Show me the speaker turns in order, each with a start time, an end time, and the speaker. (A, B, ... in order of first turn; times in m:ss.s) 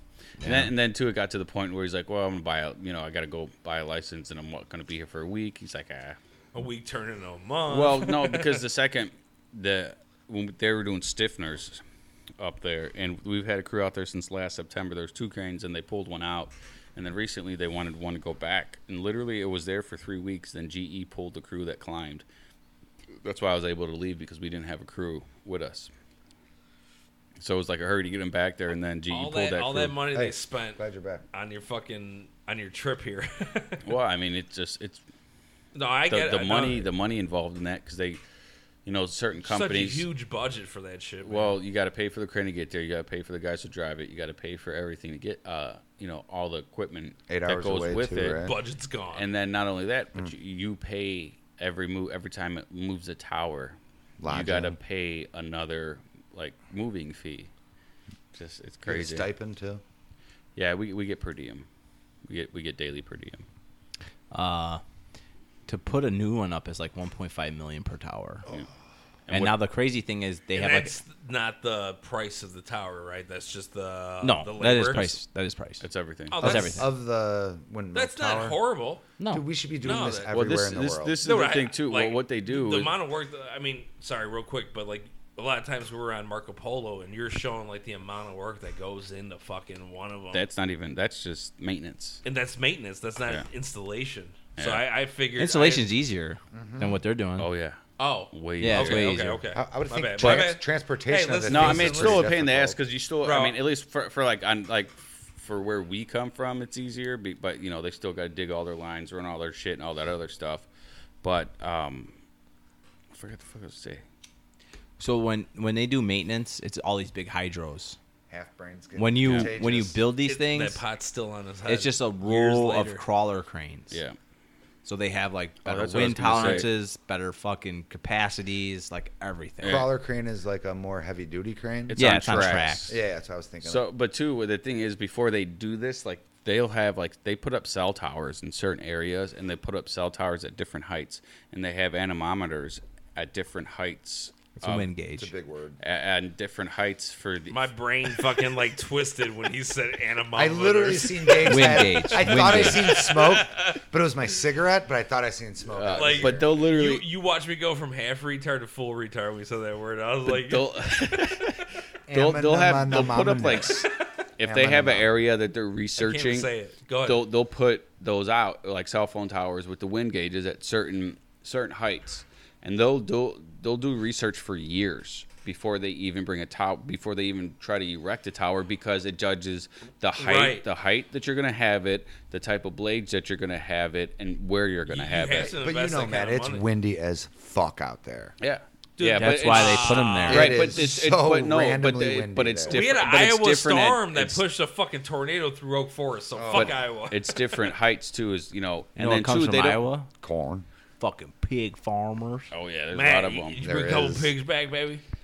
0:00.4-0:06.2 A
0:00.4-0:00.7 B
0:06.5-0:08.6 C
0:07.7-0:11.8 A
0:12.4-0:22.2 A
0:23.2-0:25.9 A
0:27.4-0:30.0 A
0:29.1-0:30.8 C
0:30.1-0:31.2 D
0:31.3-0:33.8 C
0:33.8-0:35.0 A
0:35.7-0:36.9 C
0:36.1-0:38.2 A
0:38.8-0:40.0 A
0:39.4-0:41.6 C
0:41.2-0:48.4 A
0:47.3-0:48.6 D
0:48.4-0:49.2 C
0:49.1-0:57.5 A
0:54.2-0:54.8 D
0:58.3-0:59.3 A
0:58.8-0:59.8 D
1:00.6-1:01.7 A
1:02.2-1:03.4 A
1:04.3-1:04.8 B
1:05.6-1:08.4 B
1:09.3-1:09.6 A
1:09.3-1:10.9 B
1:10.5-1:15.2 C
1:14.2-1:15.8 B
1:15.8-1:16.4 A
1:16.3-1:16.9 C
1:16.4-1:16.9 B
1:16.4-1:18.6 D
1:17.9-1:19.1 C
1:19.2-1:19.4 B
1:19.3-1:21.2 D
1:19.8-1:20.3 C
1:20.3-1:22.9 A
1:21.2-1:30.4 C
1:30.3-1:32.2 A
1:32.2-1:35.9 C
1:34.6-1:34.8 A
1:35.4-1:37.5 B
1:36.5-1:37.0 D
1:37.4-1:37.8 A
1:38.0-1:42.3 C
1:38.3-1:39.2 A
1:38.6-1:39.4 B
1:39.5-1:42.8 D
1:41.5-1:50.7 A
1:43.2-1:43.6 C
1:51.2-1:52.1 A
1:53.1-1:54.0 A
1:55.0-1:58.0 B
1:58.3-2:00.0 D
1:59.0-2:00.8 B
1:59.2-1:59.5 A
2:00.2-2:03.0 C
2:01.6-2:04.0 B
2:03.9-2:04.2 A
2:04.8-2:09.8 B
2:05.6-2:06.7 A
2:09.6-2:09.9 A
2:09.6-2:13.8 D
2:11.9-2:13.0 A
2:11.9-2:12.9 B
2:13.6-2:24.9 A
2:24.6-2:25.3 B
2:25.2-2:25.8 D
2:25.8-2:27.7 A
2:27.5-2:33.8 C
2:30.3-2:36.4 D
2:31.4-2:33.0 B
2:35.7-2:37.1 A
2:35.9-2:40.7 C
2:40.2-2:46.5 A
2:42.1-2:43.9 D
2:44.4-2:45.1 D
2:46.0-2:47.2 C
2:47.0-3:05.5 A
3:00.2-3:00.6 C
3:04.9-3:06.6 C
3:05.5-3:08.3 D
3:08.4-3:14.4 A
3:09.0-3:10.6 C
3:09.1-3:10.7 B
3:10.3-3:12.8 D
3:12.7-3:17.7 C
3:16.4-3:16.7 D
3:16.5-3:19.8 A
3:19.0-3:20.1 B
3:20.2-3:20.6 D
3:21.0-3:22.5 B
3:22.5-3:23.8 A
3:22.9-3:25.0 C
3:23.6-3:24.3 D